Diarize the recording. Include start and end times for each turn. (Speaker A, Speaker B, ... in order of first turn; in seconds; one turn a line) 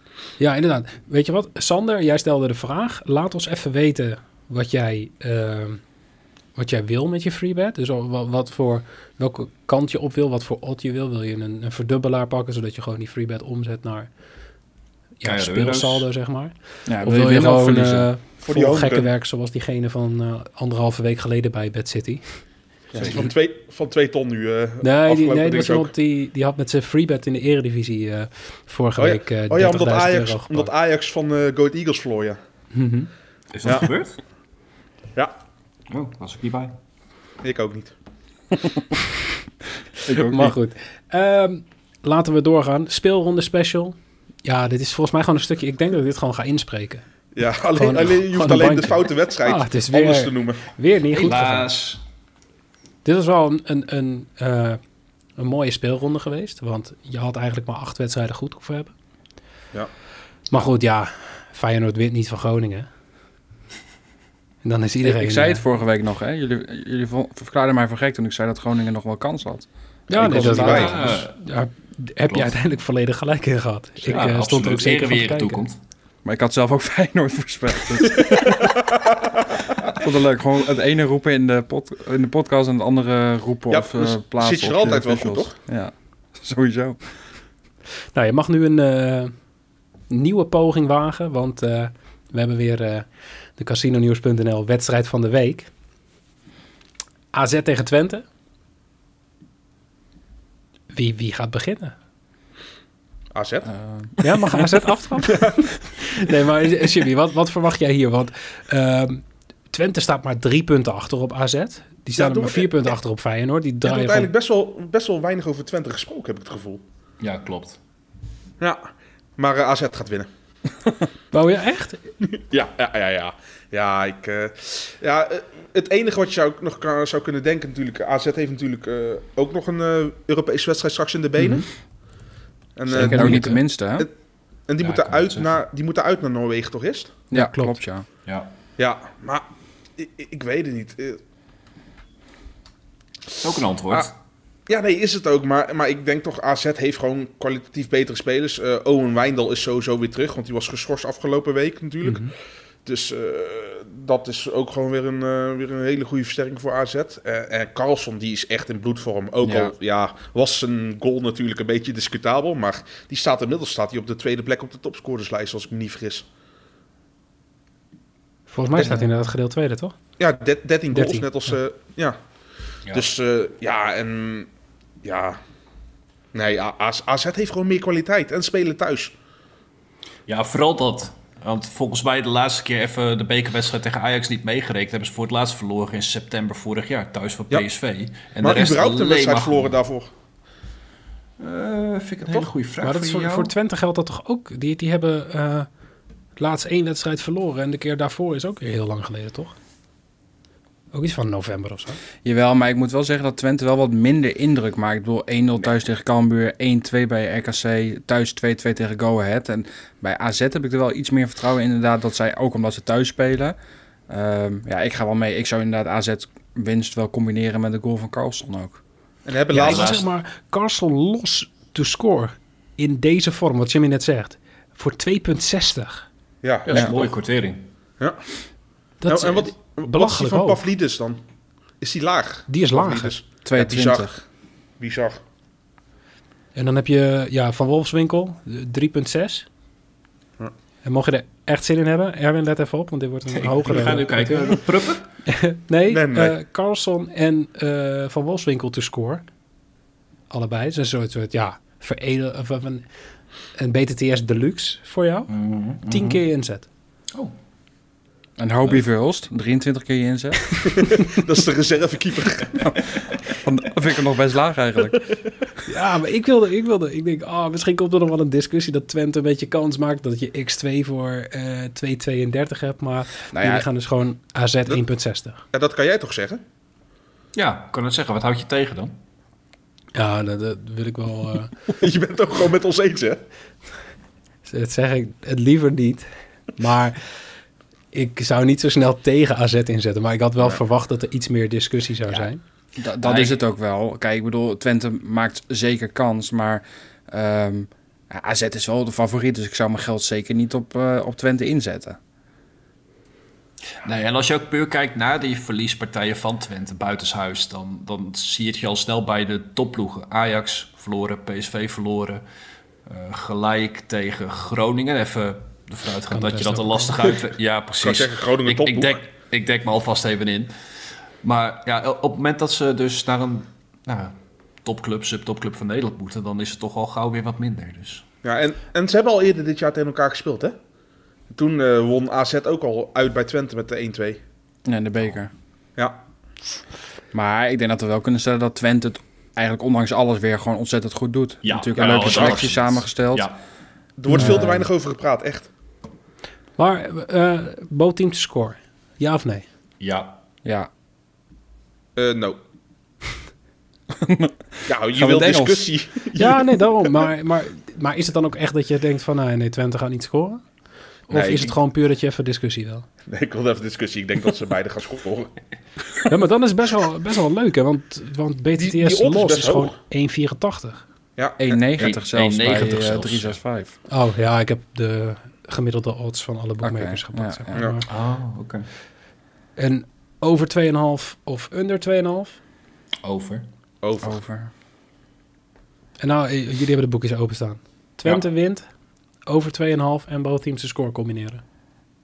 Speaker A: 0.4-5.8
Speaker A: 6.5-14.1
Speaker A: 15.2-22.2
Speaker B: 15.2-16.1
Speaker C: 16.9-18.1
Speaker D: 18.4-19.1
Speaker D: 22.9-25.9
Speaker A: 24.8-30.7
Speaker D: 29.0-32.4
Speaker A: 32.7-33.1
Speaker B: 33.5-34.2
Speaker B: 35.9-36.8
Speaker D: 37.4-37.9
Speaker C: 40.0-40.5
Speaker A: 40.1-47.0
Speaker D: 47.3-50.6
Speaker A: 47.7-51.7
Speaker B: 51.1-52.0
Speaker A: 53.0-54.8
Speaker A: 55.4-58.9
Speaker A: 60.5-62.9
Speaker A: 64.6-65.6
Speaker C: 65.0-71.1
Speaker A: 70.1-75.6
Speaker D: 70.2-71.0
Speaker B: 70.2-71.3
Speaker B: 74.0-75.8
Speaker C: 76.2-78.8
Speaker D: 78.1-79.2
Speaker C: 79.9-87.0
Speaker D: 83.7-85.5
Speaker A: 88.1-89.3
Speaker A: 90.1-95.7
Speaker A: 97.3-98.2
Speaker A: 100.9-101.9
Speaker D: 103.3-103.7
Speaker C: 103.7-104.1
Speaker A: 104.2-114.3
Speaker D: 105.3-105.7
Speaker D: 112.2-112.8
Speaker D: 113.8-116.8
Speaker B: 117.2-117.8
Speaker D: 118.6-120.3
Speaker A: 121.3-122.1
Speaker D: 122.3-131.7
Speaker D: 132.8-134.1
Speaker A: 132.9-133.6
Speaker C: 132.9-134.1
Speaker D: 134.7-137.2
Speaker B: 134.8-135.6
Speaker C: 137.3-138.0
Speaker A: 137.3-137.8
Speaker D: 138.8-139.4
Speaker D: 140.0-141.2
Speaker B: 143.4-144.1
Speaker D: 144.7-152.3
Speaker A: 152.0-152.3
Speaker D: 152.8-166.2
Speaker C: 159.4-159.7
Speaker A: 168.5-169.9
Speaker D: 170.2-172.2
Speaker A: 170.9-171.3
Speaker D: 172.9-174.5
Speaker D: 175.0-175.4
Speaker D: 176.3-179.1
Speaker B: 180.3-189.7
Speaker D: 188.4-190.1
Speaker B: 191.4-193.5
Speaker A: 192.8-195.7
Speaker A: 196.4-199.5
Speaker A: 200.9-202.0
Speaker C: 202.2-213.5
Speaker C: 214.1-218.8
Speaker D: 219.2-220.0
Speaker A: 219.5-226.1
Speaker B: 219.5-220.1
Speaker D: 226.4-227.1
Speaker B: 226.7-227.6
Speaker A: 229.0-230.6
Speaker D: 229.1-231.2
Speaker D: 231.8-234.1
Speaker A: 232.5-233.1
Speaker C: 233.4-234.2
Speaker D: 234.8-235.2
Speaker A: 236.5-239.4
Speaker A: 240.8-244.6
Speaker B: 243.3-245.1
Speaker A: 245.2-249.2
Speaker D: 245.9-246.4
Speaker A: 250.3-252.8
Speaker A: 253.6-255.3
Speaker B: 255.3-256.2
Speaker A: 255.8-256.6
Speaker C: 258.4-260.5
Speaker D: 260.7-262.8
Speaker C: 263.3-265.1
Speaker A: 265.6-275.4
Speaker C: 273.3-273.6
Speaker D: 275.5-276.4
Speaker B: 277.3-278.9
Speaker A: 279.9-281.5
Speaker D: 281.8-283.2
Speaker A: 284.4-287.0
Speaker A: 287.9-292.4
Speaker C: 292.8-302.0
Speaker B: 293.0-293.4
Speaker B: 303.8-312.2
Speaker B: 312.9-320.5
Speaker A: 316.1-317.1
Speaker D: 317.8-319.0
Speaker B: 321.2-328.0
Speaker D: 328.2-330.6
Speaker D: 331.3-334.2
Speaker C: 334.6-335.3
Speaker C: 337.1-343.3
Speaker B: 341.4-343.4
Speaker D: 341.8-342.4
Speaker D: 344.0-345.5
Speaker A: 344.1-344.4
Speaker C: 344.1-344.7
Speaker A: 346.6-349.4
Speaker B: 349.8-350.2
Speaker C: 350.4-350.7
Speaker D: 351.9-352.4
Speaker C: 354.0-355.7
Speaker D: 354.7-356.6
Speaker A: 356.1-360.4
Speaker A: 361.1-362.8
Speaker D: 361.1-361.5
Speaker D: 363.1-365.3
Speaker A: 366.1-370.8
Speaker D: 368.6-369.7
Speaker D: 371.2-371.4
Speaker C: 371.4-373.7
Speaker B: 371.8-373.4
Speaker A: 373.9-377.9
Speaker C: 376.6-377.6
Speaker D: 377.5-377.8
Speaker B: 377.9-378.6
Speaker A: 379.6-382.4
Speaker B: 383.0-383.4
Speaker D: 383.8-384.2
Speaker C: 384.0-384.5
Speaker A: 386.0-388.6
Speaker A: 389.3-391.4